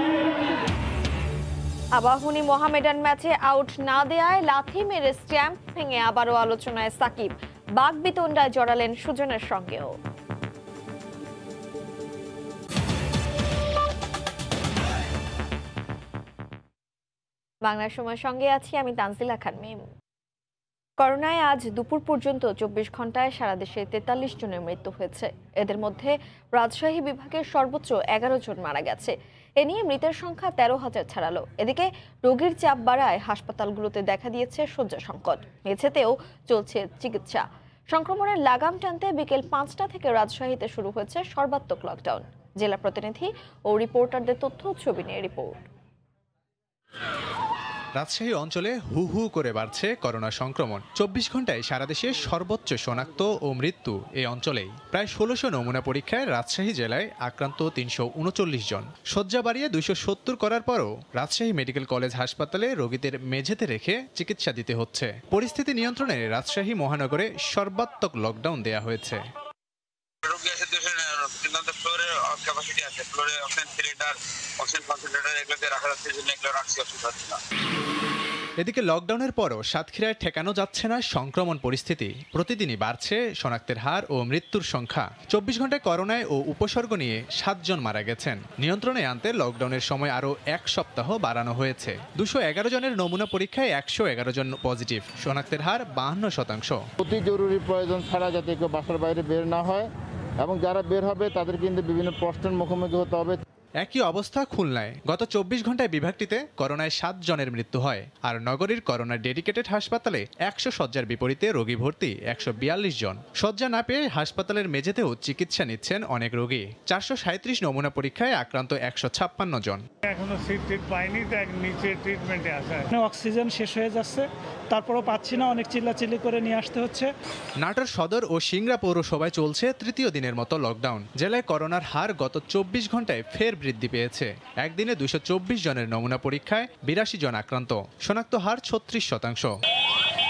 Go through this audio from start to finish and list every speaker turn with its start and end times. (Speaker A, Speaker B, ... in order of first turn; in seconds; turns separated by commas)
Speaker A: 1.9-9.9, Speaker A: 17.6-19.8, Speaker A: 21.0-45.6, Speaker B: 48.0-69.2, Speaker C: 70.3-74.1, Speaker C: 74.6-77.3, Speaker B: 78.6-96.8, Speaker D: 97.0-99.9, Speaker D: 100.4-103.4, Speaker B: 103.8-119.8, Speaker E: 120.1-122.9, Speaker F: 122.9-127.1, Speaker B: 127.6-139.5